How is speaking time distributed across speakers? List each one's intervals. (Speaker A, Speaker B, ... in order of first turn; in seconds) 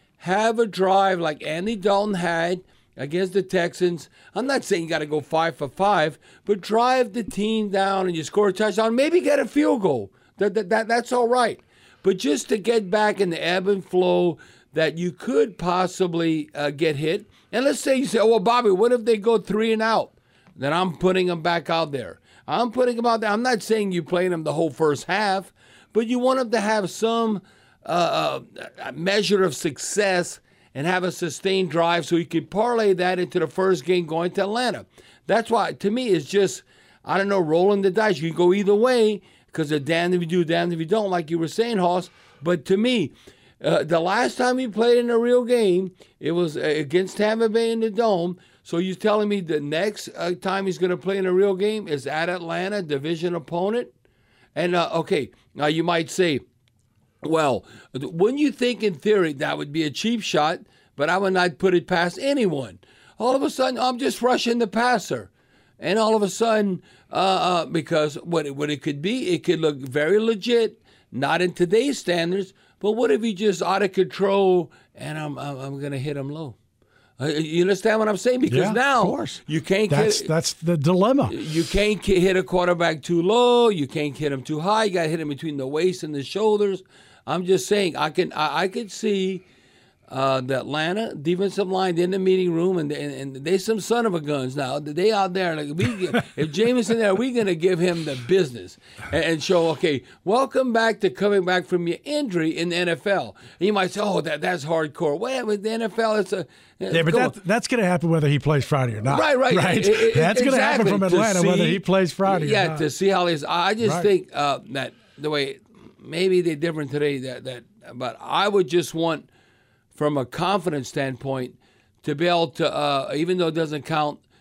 Speaker A: 0.2-53.9, 54.5-56.4, 57.2-76.5, 77.2-80.3, 81.3-89.4, 90.1-107.3, 109.0-119.3, 120.0-124.2
Speaker B: 78.5-81.7, 106.9-112.8, 113.8-114.1